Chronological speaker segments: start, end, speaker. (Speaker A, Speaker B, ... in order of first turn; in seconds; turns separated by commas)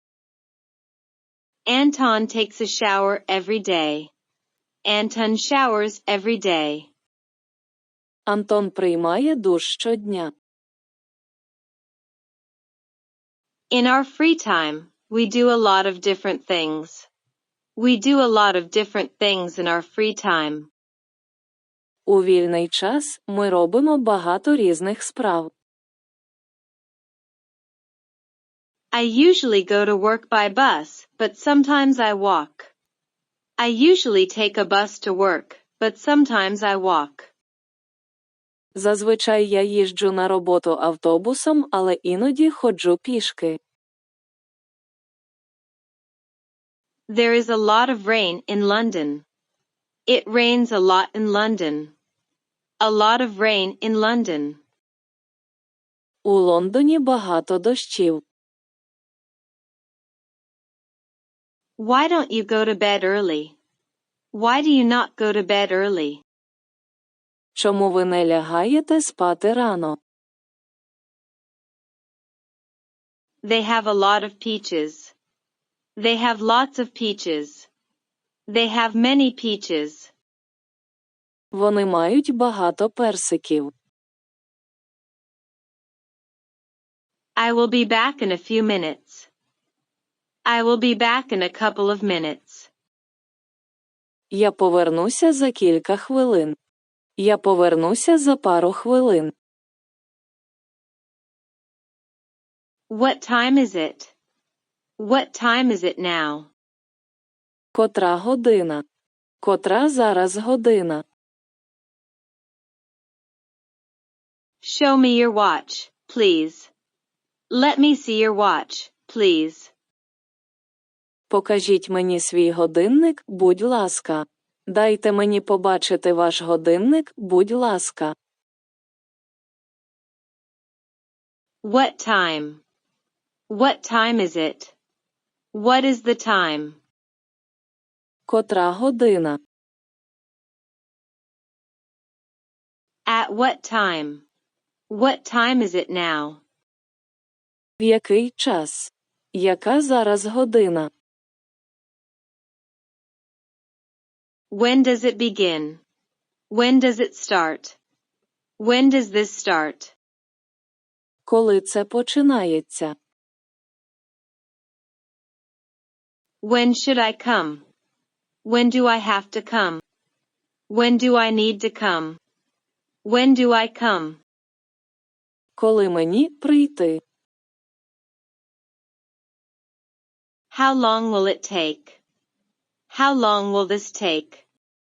Speaker A: 1.7-4.1, Speaker A: 4.8-6.9, Speaker B: 8.3-10.3, Speaker A: 13.7-17.1, Speaker A: 17.8-20.7, Speaker B: 22.1-25.5, Speaker A: 28.9-32.7, Speaker A: 33.6-37.3, Speaker B: 38.8-43.6, Speaker A: 47.1-49.2, Speaker A: 50.0-51.9, Speaker A: 52.8-54.6, Speaker B: 56.2-58.2, Speaker A: 61.8-63.5, Speaker A: 64.3-66.2, Speaker B: 67.5-70.0, Speaker A: 73.4-75.1, Speaker A: 76.0-77.7, Speaker A: 78.5-80.1, Speaker B: 81.5-83.7, Speaker A: 87.4-89.3, Speaker A: 90.4-92.7, Speaker B: 94.3-96.5, Speaker B: 97.2-99.3, Speaker A: 102.9-104.1, Speaker A: 105.0-106.5, Speaker B: 107.7-108.8, Speaker B: 109.4-111.0, Speaker A: 114.6-116.7, Speaker A: 117.5-119.7, Speaker B: 121.3-128.1, Speaker A: 131.6-132.6, Speaker A: 133.5-134.7, Speaker A: 135.5-136.8, Speaker B: 138.3-139.4, Speaker A: 143.1-144.2, Speaker A: 144.9-146.4, Speaker B: 147.8-150.9, Speaker A: 154.5-155.8, Speaker A: 156.5-157.8, Speaker A: 158.6-159.9, Speaker B: 161.2-162.9, Speaker A: 166.4-167.6, Speaker A: 168.4-169.8, Speaker A: 170.7-172.2, Speaker A: 173.0-174.2, Speaker B: 175.6-177.0, Speaker A: 180.5-182.0, Speaker A: 182.9-184.4